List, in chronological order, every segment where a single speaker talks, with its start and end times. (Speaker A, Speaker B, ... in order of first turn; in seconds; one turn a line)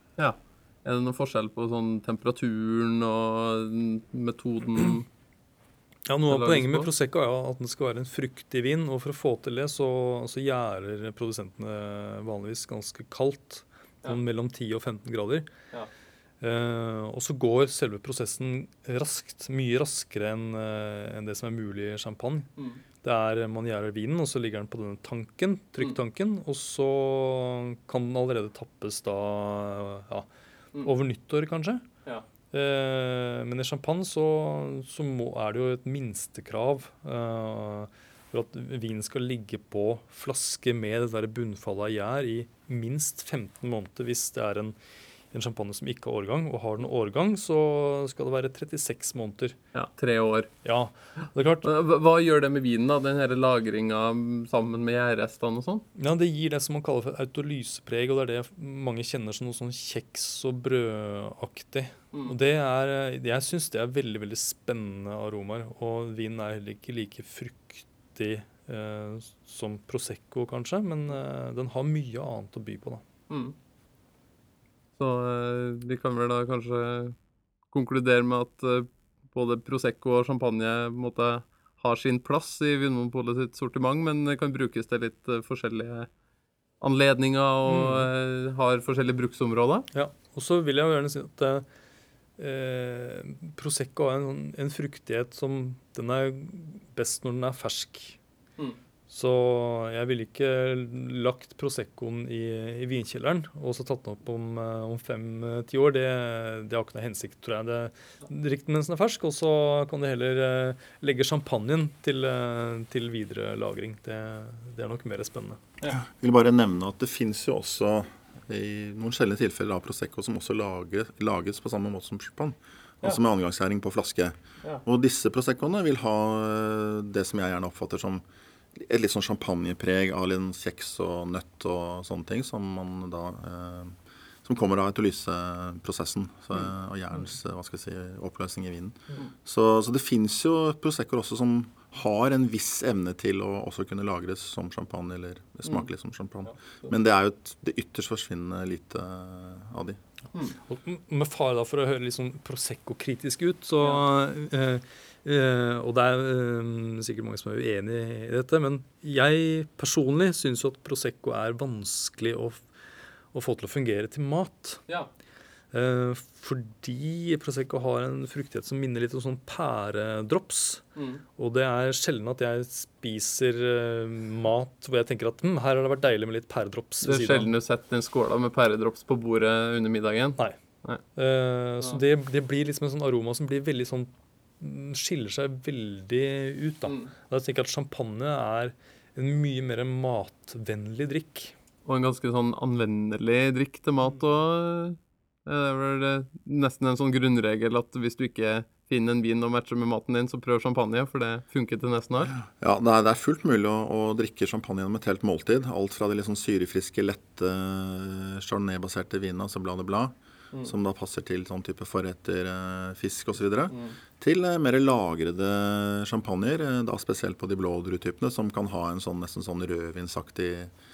Speaker A: 0.2-5.0
Speaker B: 6.0-15.5
Speaker A: 6.3-6.9
Speaker B: 16.4-22.5
Speaker B: 23.0-30.3
Speaker B: 30.8-31.8
Speaker B: 32.5-44.8
Speaker B: 45.3-49.5
Speaker A: 49.7-50.5
Speaker B: 50.6-51.7
Speaker A: 51.6-55.8
Speaker B: 55.9-73.0
Speaker A: 73.3-73.5
Speaker A: 75.0-77.1
Speaker A: 77.7-86.1
Speaker A: 86.8-89.8
Speaker B: 87.7-88.1
Speaker B: 89.9-91.7
Speaker B: 92.4-98.2
Speaker B: 99.1-115.6
Speaker C: 115.8-128.2
Speaker C: 128.8-150.0
Speaker B: 150.6-162.6
Speaker B: 163.3-164.8
Speaker B: 165.7-170.8
Speaker A: 171.0-171.2
Speaker B: 171.3-177.5
Speaker A: 177.0-181.0
Speaker B: 181.1-191.5
Speaker A: 191.8-194.9
Speaker A: 195.5-202.3
Speaker C: 202.3-220.7
Speaker A: 213.7-213.9